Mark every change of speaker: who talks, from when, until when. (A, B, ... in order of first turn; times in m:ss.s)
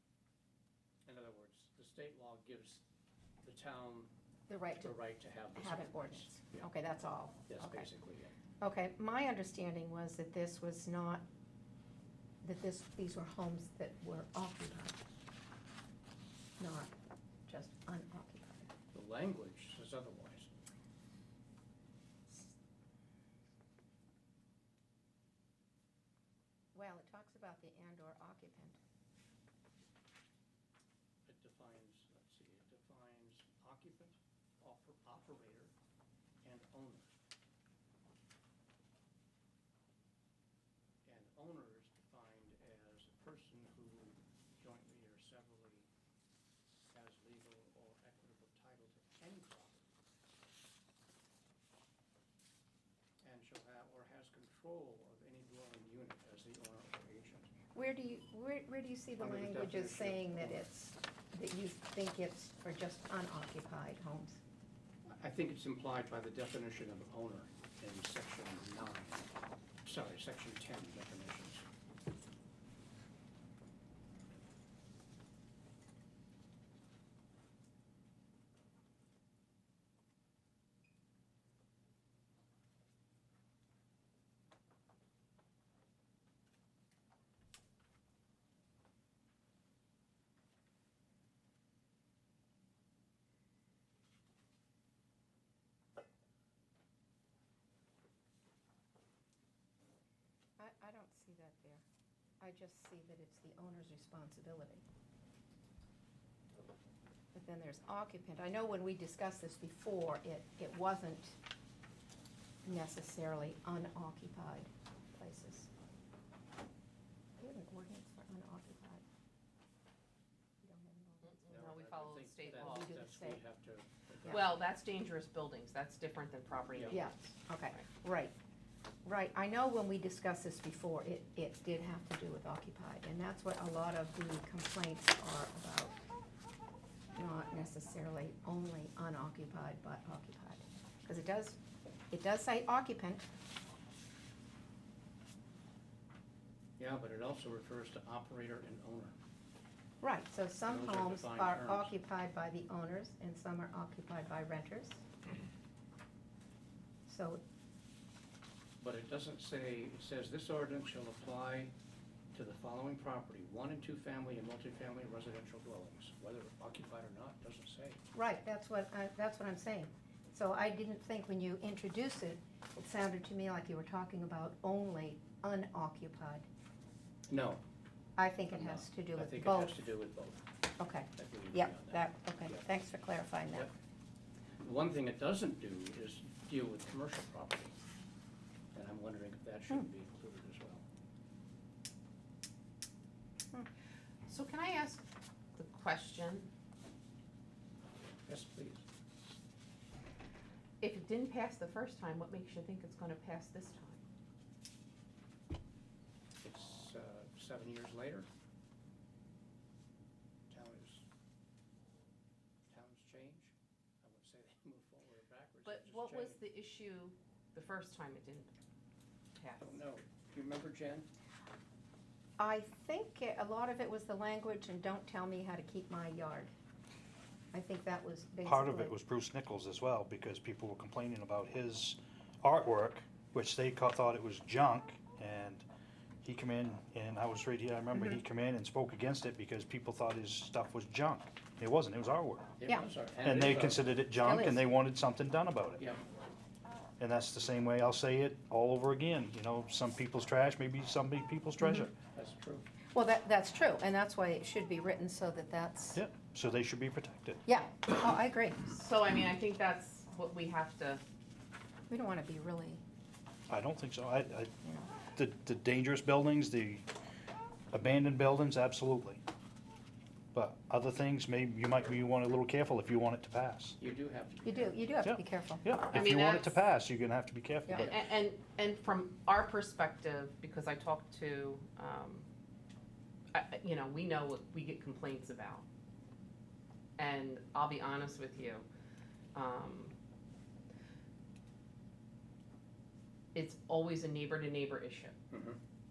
0:01.0-0:02.8 A
0:03.4-0:04.1 A
0:04.5-0:07.9 B
0:04.8-0:06.7 A
0:07.5-0:08.3 A
0:08.6-0:11.2 B
0:12.4-0:15.0 B
0:16.6-0:16.9 B
0:17.5-0:18.7 B
0:18.9-0:20.6 A
0:26.7-0:28.8 B
0:31.2-0:35.7 A
0:36.4-0:37.2 A
0:41.0-0:45.9 A
0:46.8-0:49.9 A
0:53.2-0:57.5 A
0:57.7-1:04.4 B
0:59.2-1:00.7 A
1:05.1-1:09.3 A
1:09.8-1:11.6 A
1:40.6-1:41.8 B
1:42.4-1:44.8 B
1:47.3-1:51.4 B
1:52.6-1:55.7 B
1:57.4-1:59.0 B
2:00.6-2:01.6 B
2:01.2-2:02.9 C
2:01.5-2:04.6 A
2:02.4-2:03.4 B
2:04.3-2:07.8 C
2:06.7-2:07.0 A
2:06.9-2:08.3 B
2:09.0-2:16.0 B
2:17.1-2:21.6 B
2:22.1-2:23.2 B
2:26.8-2:29.2 A
2:30.0-2:35.0 B
2:30.6-2:31.9 A
2:37.1-2:37.4 B
2:38.8-2:41.7 A
2:42.3-2:48.0 A
2:48.1-2:56.5 B
2:57.3-2:57.6 A
2:58.2-2:59.8 B
2:58.5-3:00.4 A
3:00.8-3:03.7 B
3:01.1-3:02.6 A
3:04.6-3:07.8 A
3:08.7-3:10.8 A
3:14.3-3:15.0 C
3:15.5-3:16.5 C
3:18.2-3:18.8 A
3:20.8-3:24.0 C
3:26.4-3:28.3 A
3:30.5-3:31.0 A
3:32.7-3:36.4 A
3:35.6-3:38.5 C
3:39.3-3:39.8 C
3:39.6-3:41.1 A
3:42.4-3:46.5 B
3:47.5-3:48.9 B
3:48.4-3:55.6 D
3:56.2-4:02.5 D
4:02.6-4:03.9 A
4:03.2-4:05.8 D
4:04.2-4:04.6 B
4:07.0-4:11.9 D
4:11.6-4:11.9 B
4:12.1-4:12.6 A
4:12.9-4:16.0 B
4:15.9-4:17.4 D
4:17.4-4:18.6 B
4:18.6-4:21.0 C
4:21.9-4:22.8 B
4:23.5-4:24.5 D
4:24.6-4:24.9 B
4:25.1-4:26.8 D
4:27.7-4:29.2 D
4:30.3-4:33.8 D
4:33.8-4:34.8 A
4:34.4-4:35.6 B
4:35.0-4:38.0 D
4:35.9-4:36.6 C
4:37.7-4:42.3 C
4:43.3-4:45.6 C
4:47.0-4:48.6 C
4:49.3-4:49.9 C
4:53.3-4:55.2 C
4:55.3-4:55.6 A